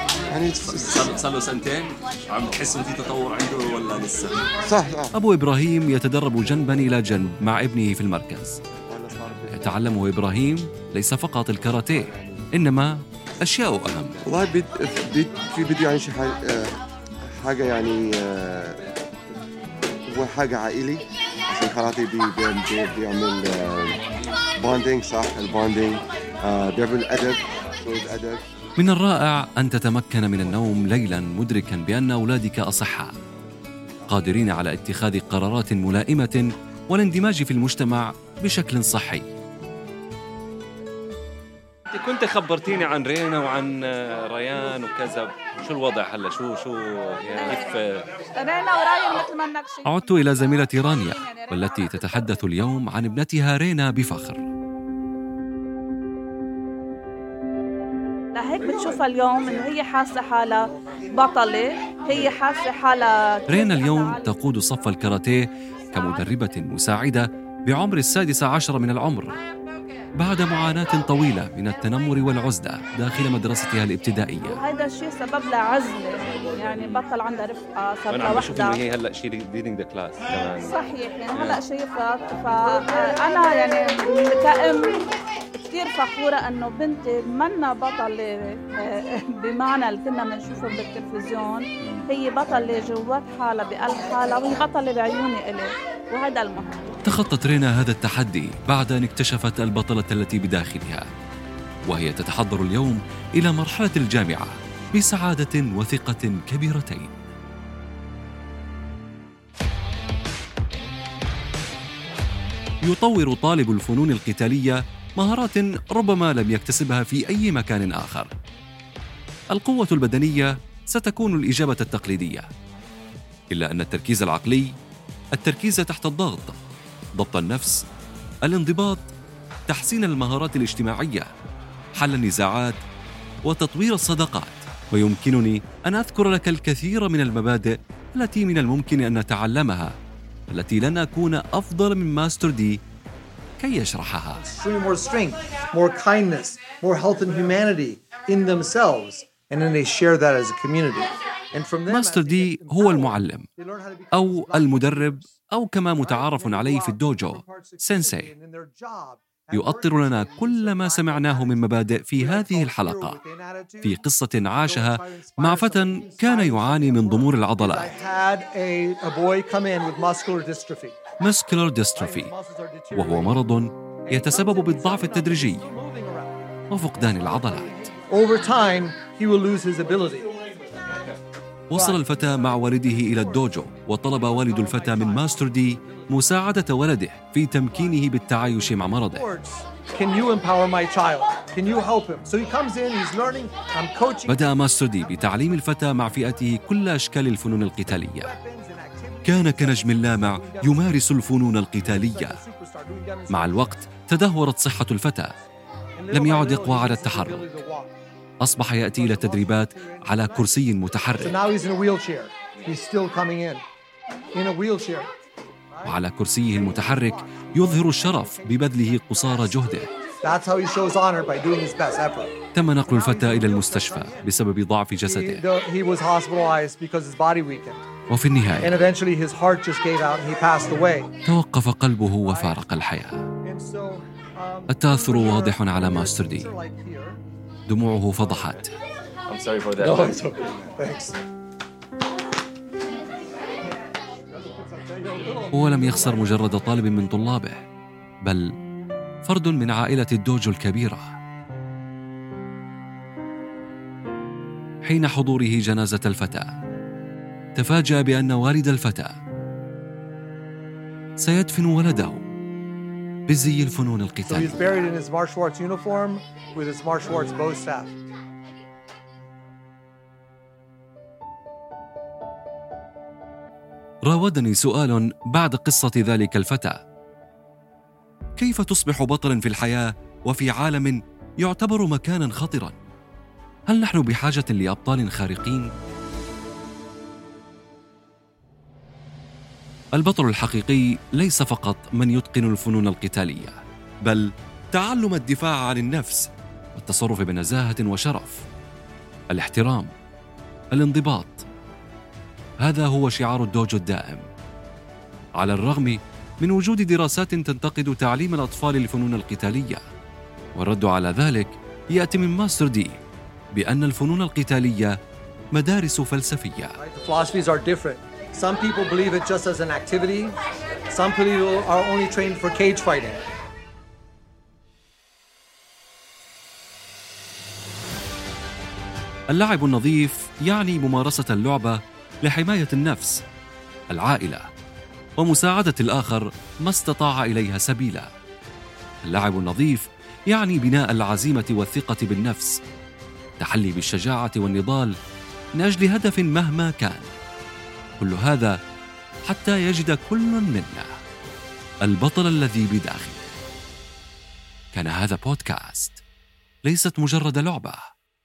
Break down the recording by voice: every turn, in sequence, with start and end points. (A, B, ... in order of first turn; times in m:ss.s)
0:00.3-0:01.2 A
0:00.6-0:04.5 B
0:04.6-0:05.2 A
0:05.1-0:08.6 C
0:08.9-0:09.9 A
0:09.5-0:14.2 C
0:11.9-0:12.4 A
0:14.2-0:16.7 A
0:17.3-0:18.8 A
0:20.1-0:24.0 A
0:24.6-0:28.4 A
0:28.8-0:33.1 C
0:34.1-0:39.3 C
0:41.9-0:48.0 B
0:47.4-0:47.8 D
0:48.3-0:52.3 D
0:49.8-0:54.4 C
0:58.3-1:04.3 D
1:03.5-1:09.4 C
1:10.2-1:14.6 C
1:14.4-1:18.8 D
1:18.1-1:20.8 B
1:20.6-1:36.9 D
1:21.3-1:21.6 B
1:31.8-1:32.1 C
1:37.0-1:41.1 C
1:41.9-1:47.1 C
1:52.8-1:58.3 C
1:59.5-2:02.5 C
2:03.5-2:04.7 C
2:05.4-2:06.6 C
2:07.2-2:07.8 C
2:08.4-2:09.1 C
2:09.7-2:11.3 C
2:12.0-2:12.8 C
2:13.5-2:19.9 C
2:20.5-2:22.8 C
2:23.6-2:24.4 C
2:24.3-2:35.3 E
2:31.9-2:33.5 C
2:34.1-2:38.3 C
2:36.0-2:44.0 E
2:39.5-2:43.2 C
2:43.8-2:47.9 C
2:44.5-2:51.0 E
2:51.2-2:52.3 C
2:51.9-2:53.4 E
2:52.9-2:55.7 C
2:54.0-2:56.4 E
2:56.7-2:57.9 C
2:57.2-3:00.3 E
3:01.7-3:09.2 C
3:01.7-3:03.5 E
3:04.3-3:06.4 E
3:07.7-3:15.6 E
3:14.2-3:18.3 C
3:18.1-3:20.9 E
3:19.2-3:22.4 C
3:21.9-3:23.7 E
3:23.3-3:25.3 C
3:26.0-3:27.9 E
3:26.1-3:27.6 C
3:28.4-3:31.4 C
3:28.9-3:33.6 E
3:34.3-3:35.1 E
3:35.7-3:42.3 E
3:35.8-3:39.9 C
3:42.5-3:45.4 C
3:42.9-3:44.3 E
3:45.0-3:48.1 E
3:48.1-3:48.8 C
3:48.6-3:51.1 E
3:51.2-3:53.2 C
3:52.2-3:52.6 E
3:53.4-3:57.2 E
3:54.7-3:56.5 C
3:57.7-3:58.7 C
3:59.3-4:00.2 B
3:59.8-4:01.2 E
4:04.5-4:06.2 E
4:05.5-4:07.6 C
4:09.2-4:11.1 C
4:14.8-4:16.5 C
4:17.6-4:19.1 C
4:21.2-4:22.2 C
4:23.3-4:24.8 C
4:24.3-4:27.9 E
4:34.1-4:36.8 C
4:38.4-4:42.7 C
4:43.7-4:45.7 C
4:50.0-4:58.4 C
4:59.3-4:59.9 C
5:00.7-5:01.4 C
5:02.6-5:04.2 C
5:05.4-5:09.8 C
5:10.5-5:13.0 C
5:13.5-5:15.0 C
5:15.5-5:16.8 C
5:16.8-5:23.2 E
5:29.3-5:33.2 C
5:33.9-5:34.4 C
5:35.2-5:38.1 C
5:39.0-5:42.6 C
5:43.4-5:44.9 C
5:45.6-5:47.1 C
5:48.0-5:48.5 C
5:49.3-5:50.9 C
5:51.9-5:53.2 C
5:54.7-5:56.0 C
5:56.7-5:57.8 C